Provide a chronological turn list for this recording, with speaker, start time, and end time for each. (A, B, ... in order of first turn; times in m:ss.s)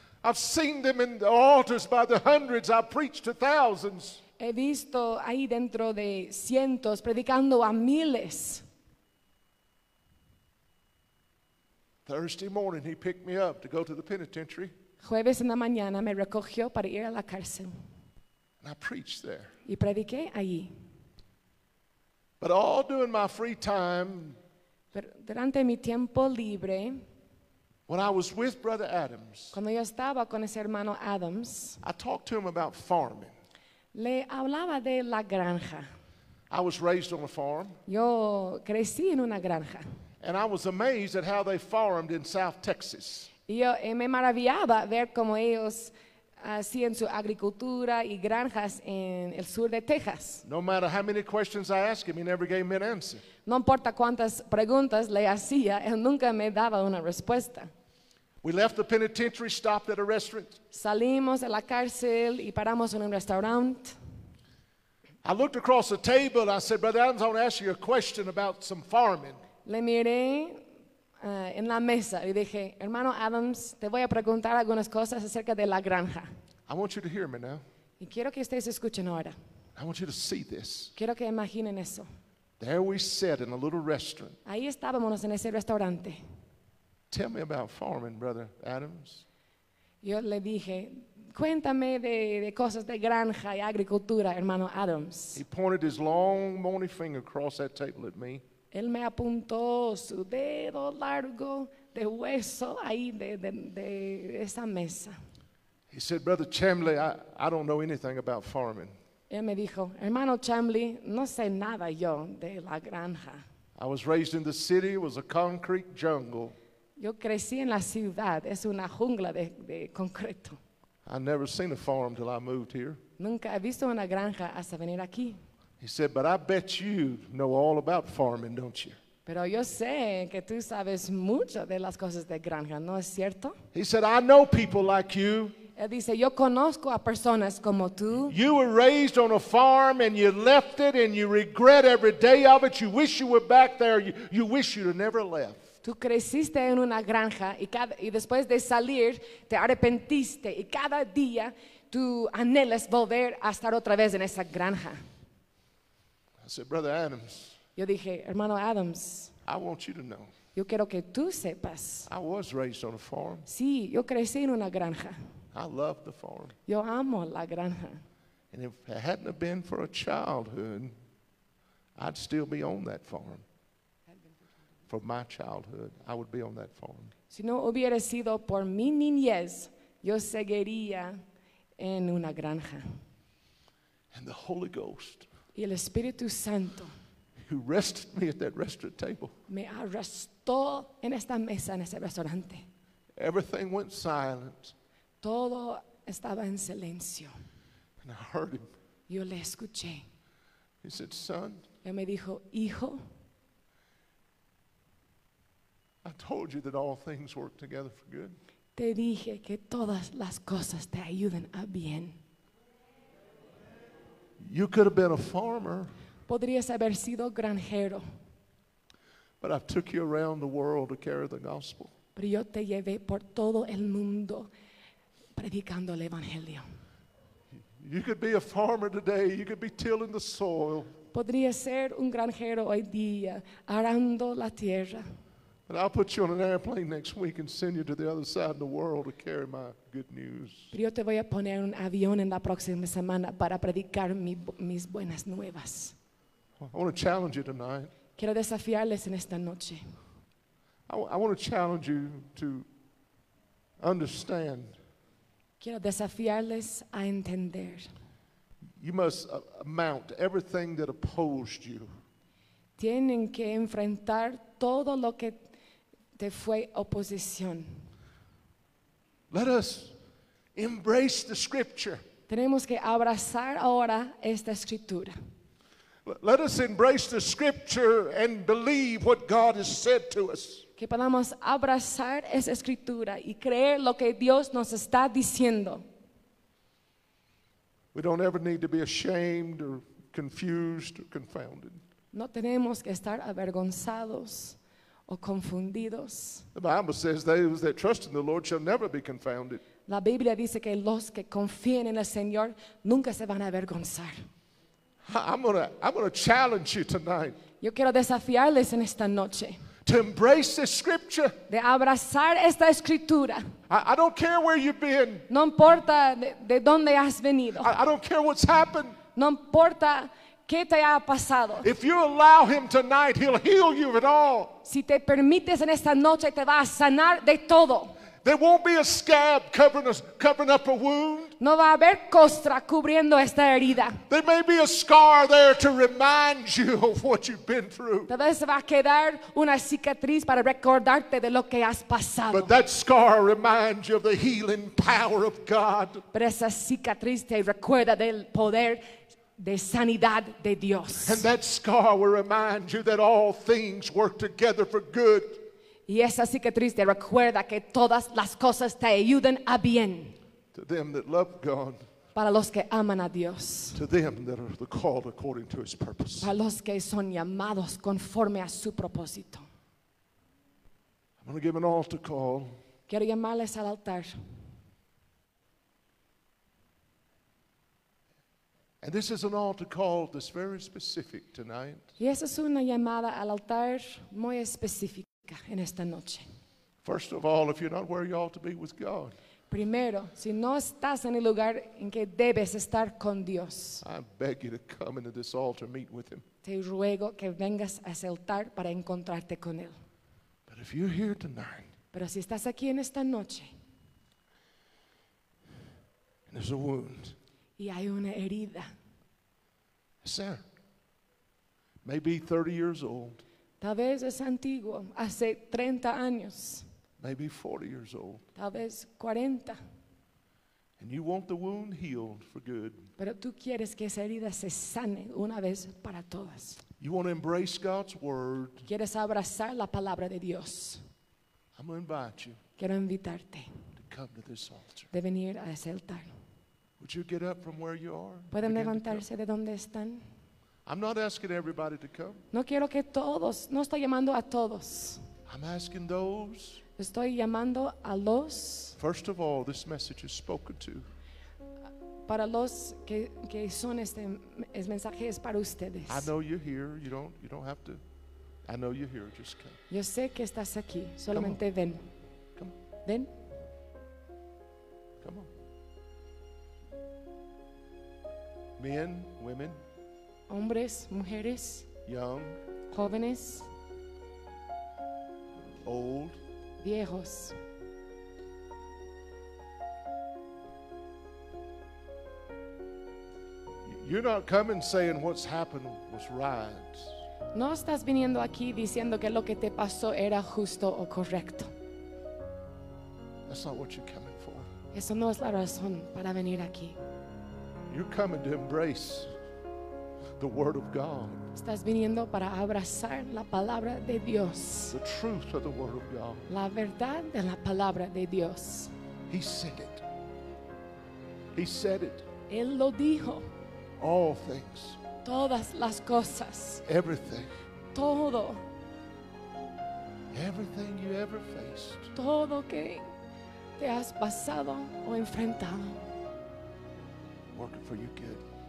0:00.2-0:04.2 A
0:04.4-0:08.6 B
0:12.1-0:14.7 A
0:15.0-0:17.7 B
0:18.6-0:19.5 A
0:19.7-0:20.7 B
0:22.4-0:24.4 A
0:24.9-0:27.0 B
0:27.9-0:29.6 A
0:29.5-0:31.8 B
0:31.8-0:33.3 A
0:33.9-0:35.9 B
0:36.5-0:37.8 A
0:37.9-0:39.8 B
0:40.2-0:43.3 A
0:43.5-0:50.4 B
0:50.4-0:53.2 A
0:53.5-0:57.7 B
0:58.4-1:00.6 A
1:00.7-1:04.0 B
1:05.2-1:09.4 A
1:09.6-1:10.7 B
1:11.2-1:16.3 B
1:16.7-1:17.6 A
1:18.0-1:19.4 B
1:19.8-1:20.9 A
1:21.0-1:22.1 B
1:22.6-1:24.4 A
1:24.4-1:26.2 B
1:27.1-1:29.2 A
1:30.0-1:35.4 B
1:35.4-1:38.4 A
1:38.7-1:45.2 B
1:45.9-1:49.0 A
1:49.3-1:53.4 B
1:53.8-1:56.6 A
1:57.0-2:00.6 B
2:01.1-2:03.0 A
2:03.2-2:05.4 B
2:05.8-2:09.0 A
2:09.3-2:13.6 B
2:13.7-2:15.6 A
2:15.8-2:18.4 B
2:18.2-2:25.7 A
2:25.8-2:35.0 B
2:36.4-2:37.6 A
2:37.8-2:39.3 B
2:39.4-2:40.3 A
2:40.6-2:42.1 B
2:42.1-2:43.5 A
2:43.5-2:45.2 B
2:45.5-2:46.6 A
2:46.7-2:48.0 B
2:48.5-2:50.9 A
2:52.0-2:53.4 A
2:54.9-2:57.1 A
2:57.3-3:01.2 B
3:01.8-3:03.0 B
3:04.1-3:05.3 A
3:05.6-3:06.9 B
3:07.4-3:09.3 A
3:09.5-3:12.7 B
3:13.2-3:14.7 A
3:15.2-3:17.3 B
3:18.0-3:18.7 A
3:19.1-3:20.1 B
3:20.8-3:21.7 A
3:21.8-3:23.0 B
3:26.0-3:28.4 A
3:28.8-3:32.2 B
3:34.4-3:35.9 A
3:36.3-3:38.0 B
3:39.4-3:41.9 A
3:42.2-3:44.5 B
3:45.4-3:46.7 B
3:47.8-3:51.0 A
3:51.1-3:55.1 B
3:55.7-4:00.7 A
4:00.7-4:06.0 B
4:06.6-4:07.9 A
4:08.2-4:10.0 B
4:10.9-4:12.7 A
4:13.8-4:14.8 A
4:15.6-4:17.9 B
4:18.8-4:21.9 A
4:22.8-4:25.5 B
4:26.2-4:27.9 B
4:29.3-4:30.0 A
4:30.6-4:32.0 A
4:32.3-4:35.2 B
4:36.0-4:40.6 A
4:40.8-4:45.8 B
4:47.9-4:51.8 A
4:52.1-4:56.5 B
4:56.5-4:59.6 A
4:59.9-5:04.2 B
5:05.0-5:07.4 A
5:07.6-5:09.7 B
5:09.8-5:11.4 A
5:11.5-5:13.5 B
5:13.7-5:15.3 A
5:15.3-5:17.7 B
5:17.6-5:19.0 A
5:19.2-5:21.7 B
5:21.6-5:24.6 A
5:24.6-5:28.0 B
5:28.2-5:31.4 A
5:31.4-5:34.0 B
5:34.1-5:38.1 A
5:38.1-5:42.5 B
5:42.3-5:46.0 A
5:46.1-5:48.8 B
5:49.4-5:51.3 B
5:51.0-5:55.4 A
5:55.9-6:00.2 B
6:00.5-6:01.8 A
6:02.2-6:03.8 B
6:03.8-6:06.3 A
6:06.2-6:09.5 B
6:11.2-6:12.6 A
6:12.9-6:14.2 B
6:18.8-6:21.9 A
6:22.0-6:26.3 B
6:26.8-6:29.2 A
6:29.5-6:33.8 B
6:33.8-6:36.2 A
6:36.4-6:39.8 B
6:40.5-6:41.7 A
6:41.9-6:43.5 B
6:46.3-6:47.2 A
6:47.6-6:48.7 B
6:50.0-6:50.4 A
6:51.8-6:53.2 A
6:53.6-6:56.7 B
6:57.0-6:58.2 A
6:58.4-6:59.6 B
7:00.8-7:02.9 A
7:03.0-7:06.6 B
7:06.8-7:08.7 A
7:08.7-7:10.8 B
7:11.6-7:12.4 A
7:12.6-7:13.5 B
7:13.8-7:14.9 A
7:14.9-7:16.1 B
7:16.8-7:19.0 A
7:18.3-7:20.0 B
7:20.6-7:22.2 A
7:22.3-7:25.0 B
7:25.3-7:26.6 A
7:26.8-7:28.8 B
7:28.8-7:30.9 A
7:32.1-7:36.1 B
7:35.9-7:37.8 A
7:38.4-7:39.6 A
7:39.7-7:41.9 B
7:41.1-7:41.4 A
7:42.8-7:43.1 B
7:45.0-7:45.3 A
7:48.6-7:49.6 A
7:50.3-7:51.7 B
7:51.9-7:52.4 A
7:52.7-7:53.5 B
7:55.6-7:56.2 A
7:56.6-7:57.4 B
8:03.6-8:07.0 A
8:07.3-8:11.5 B
8:13.3-8:14.5 A
8:14.7-8:16.8 B
8:17.7-8:19.1 A
8:20.2-8:21.3 A
8:21.4-8:24.8 B
8:24.7-8:26.3 A
8:26.3-8:28.7 B
8:29.1-8:29.8 A
8:31.4-8:32.1 A
8:32.3-8:33.3 B
8:33.8-8:34.8 A
8:35.0-8:36.6 B
8:36.7-8:37.3 A
8:37.7-8:38.4 B
8:40.1-8:41.9 A
8:42.0-8:42.9 B
8:43.6-8:45.8 B
8:47.3-8:48.2 A